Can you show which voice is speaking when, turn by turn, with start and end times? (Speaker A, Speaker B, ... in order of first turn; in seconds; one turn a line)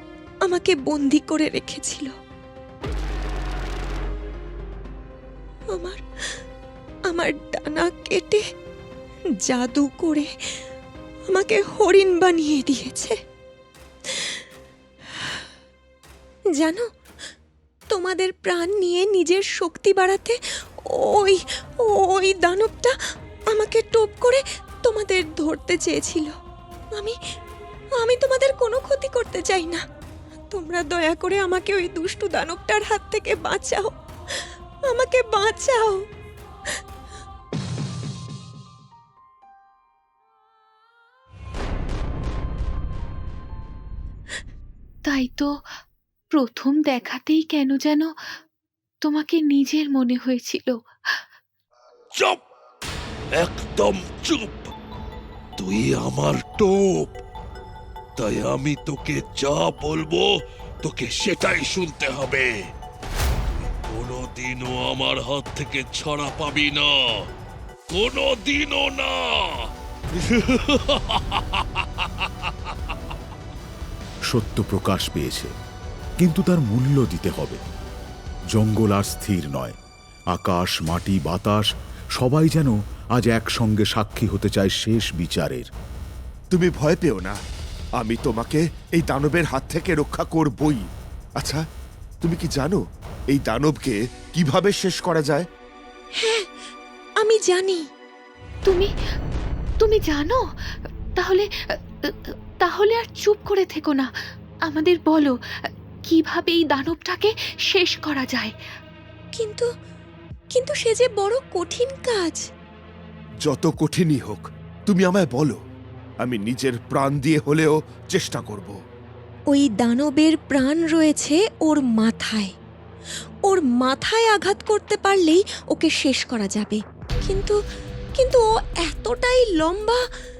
Speaker A: 0.5-2.1
Speaker A: 5.7-6.4
Speaker A: 7.1-8.4
Speaker A: 9.4-10.3
Speaker A: 11.3-13.2
Speaker A: 14.1-14.4
Speaker A: 16.6-16.9
Speaker A: 17.9-20.4
Speaker A: 20.9-22.9
Speaker A: 23.5-26.3
Speaker A: 28.0-29.8
Speaker A: 30.5-36.0
Speaker B: 45.0-45.5
Speaker B: 46.4-48.1
Speaker B: 49.0-50.7
Speaker C: 52.1-52.4
Speaker C: 53.3-54.7
Speaker C: 55.6-57.2
Speaker C: 58.2-62.6
Speaker C: 63.5-67.3
Speaker C: 67.9-72.7
Speaker D: 74.3-75.5
Speaker D: 76.2-77.6
Speaker D: 78.5-79.8
Speaker D: 80.3-85.7
Speaker E: 86.5-87.4
Speaker E: 88.0-90.8
Speaker E: 92.2-95.5
Speaker A: 96.2-96.5
Speaker A: 97.2-97.9
Speaker B: 99.8-100.4
Speaker B: 101.2-101.5
Speaker B: 102.1-104.1
Speaker B: 104.7-105.4
Speaker B: 106.1-108.5
Speaker A: 109.3-109.7
Speaker A: 110.5-112.4
Speaker E: 113.5-115.6
Speaker E: 116.2-118.8
Speaker A: 119.5-122.5
Speaker A: 123.5-127.6
Speaker A: 128.2-130.0